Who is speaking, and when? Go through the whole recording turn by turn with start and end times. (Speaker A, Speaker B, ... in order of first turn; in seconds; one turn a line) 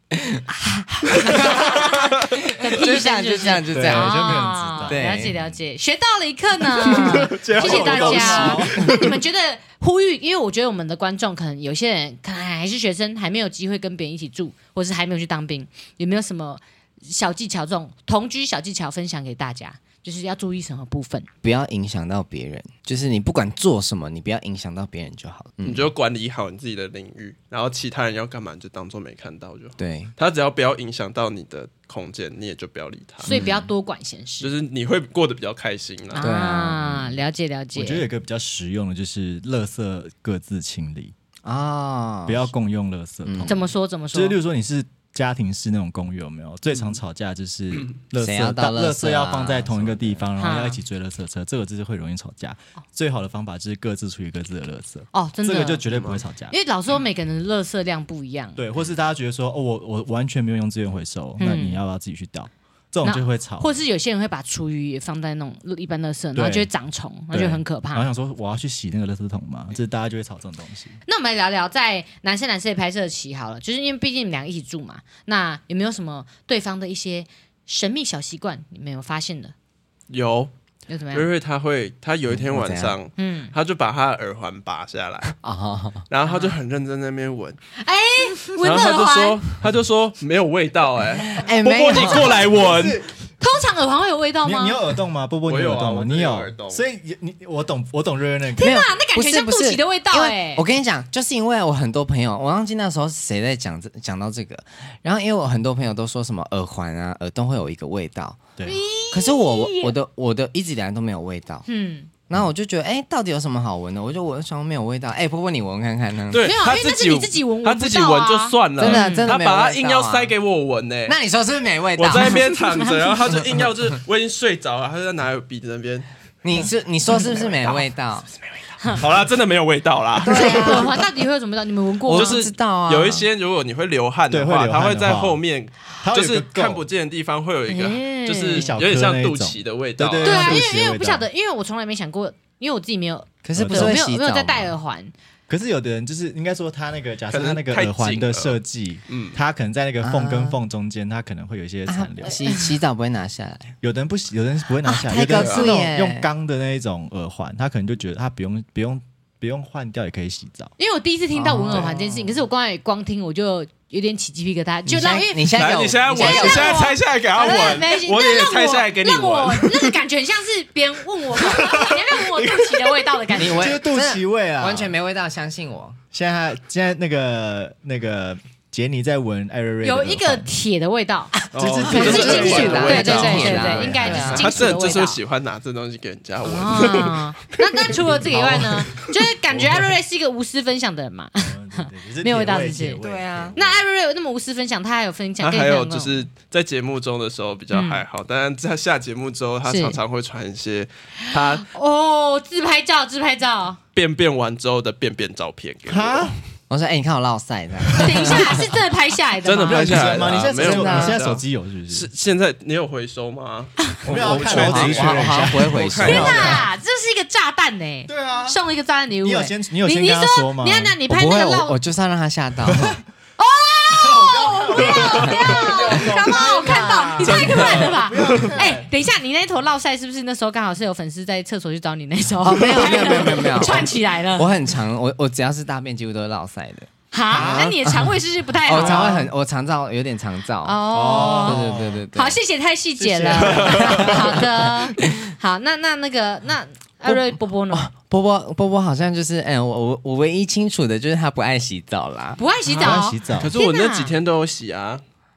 Speaker A: 0.1-0.4
Speaker B: 0.5-21.3
Speaker A: 1.1-5.3
Speaker C: 3.7-5.6
Speaker C: 6.8-9.1
Speaker D: 7.3-8.6
Speaker A: 7.8-8.6
Speaker A: 21.4-25.9
Speaker D: 25.6-33.3
Speaker A: 29.8-30.1
Speaker B: 33.2-34.5
Speaker A: 33.3-33.7
Speaker D: 34.4-36.2
Speaker B: 36.1-38.0
Speaker A: 36.2-37.2
Speaker C: 37.8-41.1
Speaker A: 41.4-42.5
Speaker C: 42.3-56.5
Speaker A: 43.2-43.5
Speaker B: 43.5-44.4
Speaker A: 48.2-50.3
Speaker B: 50.4-50.8
Speaker B: 55.1-55.9
Speaker D: 55.9-56.2
Speaker B: 56.5-58.6
Speaker C: 58.6-63.8
Speaker B: 61.4-61.8
Speaker B: 63.0-68.1
Speaker C: 66.3-66.7
Speaker C: 67.3-71.0
Speaker B: 71.1-79.5
Speaker D: 80.1-80.5
Speaker B: 80.9-81.3
Speaker D: 81.1-85.4
Speaker A: 82.3-83.0
Speaker B: 83.2-83.5
Speaker A: 85.4-86.1
Speaker D: 86.1-87.6
Speaker B: 86.2-86.5
Speaker B: 87.8-89.4
Speaker D: 88.6-93.1
Speaker A: 91.3-92.6
Speaker C: 92.0-93.1
Speaker B: 93.4-94.8
Speaker C: 94.4-98.8
Speaker D: 95.5-96.8
Speaker B: 98.6-100.6
Speaker A: 98.6-108.5
Speaker B: 108.7-109.9
Speaker A: 109.1-111.7
Speaker B: 111.7-112.1
Speaker A: 112.3-116.5
Speaker D: 116.3-121.2
Speaker B: 116.4-119.3
Speaker A: 118.8-120.3
Speaker A: 121.1-122.4
Speaker D: 122.0-126.1
Speaker B: 122.2-123.0
Speaker A: 126.4-128.3
Speaker D: 127.2-127.9
Speaker D: 128.4-130.9
Speaker A: 130.2-131.1
Speaker B: 130.3-132.4
Speaker A: 132.1-133.2
Speaker D: 132.1-140.6
Speaker C: 134.3-135.4
Speaker C: 136.0-136.8
Speaker B: 137.7-138.8
Speaker C: 138.6-141.3
Speaker B: 140.2-145.1
Speaker A: 143.4-144.7
Speaker C: 143.6-144.0
Speaker C: 145.5-152.4
Speaker D: 147.3-148.6
Speaker D: 149.1-149.4
Speaker A: 150.0-150.6
Speaker A: 151.9-153.8
Speaker B: 152.4-152.7
Speaker C: 153.8-160.7
Speaker A: 154.8-156.3
Speaker D: 155.3-155.7
Speaker B: 160.8-173.8
Speaker A: 161.3-162.4
Speaker A: 164.9-166.8
Speaker D: 165.5-170.0
Speaker D: 171.3-173.1
Speaker A: 173.3-176.0
Speaker C: 173.5-174.9
Speaker C: 176.1-180.5
Speaker B: 179.8-181.4
Speaker D: 181.5-188.0
Speaker C: 181.6-184.7
Speaker A: 181.8-184.7
Speaker B: 181.9-185.2
Speaker B: 186.4-193.0
Speaker A: 188.3-188.8
Speaker C: 188.3-188.6
Speaker C: 189.5-189.9
Speaker C: 191.4-193.8
Speaker A: 193.0-193.6
Speaker B: 193.6-196.3
Speaker D: 195.4-201.7
Speaker B: 197.7-198.0
Speaker B: 199.7-200.0
Speaker B: 201.2-203.8
Speaker D: 203.9-206.4
Speaker C: 205.9-206.4
Speaker A: 206.7-208.6
Speaker B: 207.9-210.1
Speaker C: 208.1-208.4
Speaker D: 209.4-216.6
Speaker C: 209.6-212.1
Speaker A: 210.5-211.2
Speaker C: 214.1-216.6
Speaker A: 214.1-216.7
Speaker B: 216.1-221.8
Speaker C: 218.1-218.6
Speaker C: 219.2-221.0
Speaker A: 221.1-223.0
Speaker C: 222.7-223.0
Speaker B: 223.4-234.5
Speaker C: 223.9-228.9
Speaker D: 224.9-225.5
Speaker D: 227.2-228.6
Speaker A: 232.4-238.1
Speaker D: 232.8-233.7
Speaker B: 237.1-239.3
Speaker C: 237.3-237.8
Speaker A: 238.7-242.4
Speaker C: 238.8-239.2
Speaker B: 240.6-247.9
Speaker C: 240.9-242.0
Speaker C: 243.0-244.7
Speaker D: 243.4-243.8
Speaker A: 243.5-244.7
Speaker A: 247.1-253.0
Speaker B: 252.4-254.1
Speaker C: 252.7-253.6
Speaker D: 253.3-255.0